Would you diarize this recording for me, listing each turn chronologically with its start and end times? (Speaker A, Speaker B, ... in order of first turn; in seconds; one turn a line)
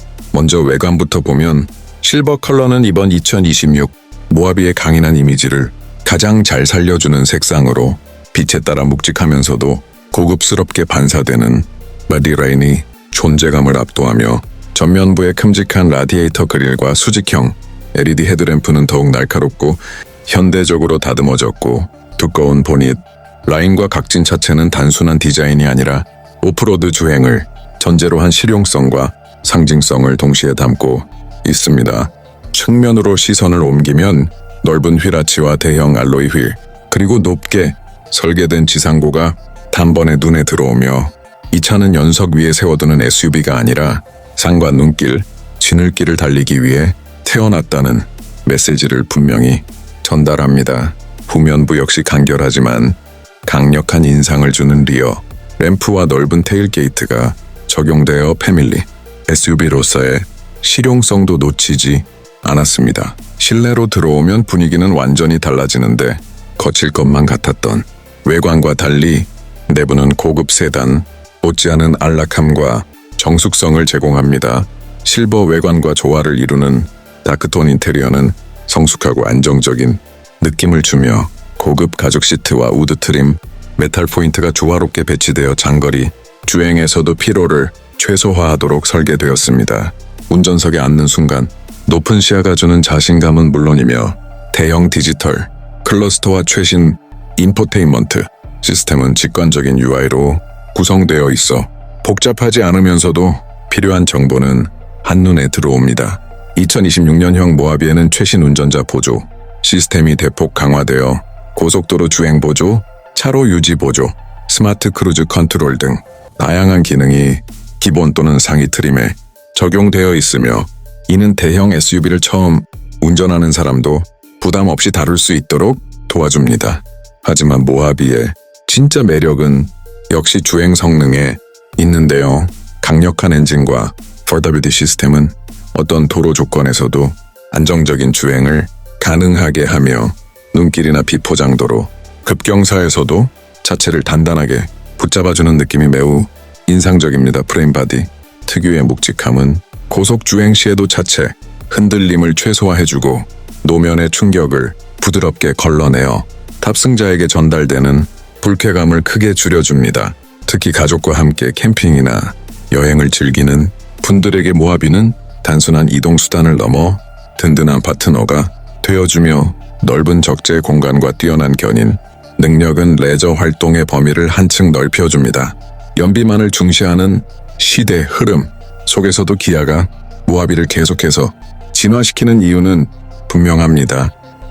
Speaker A: 0.3-184.1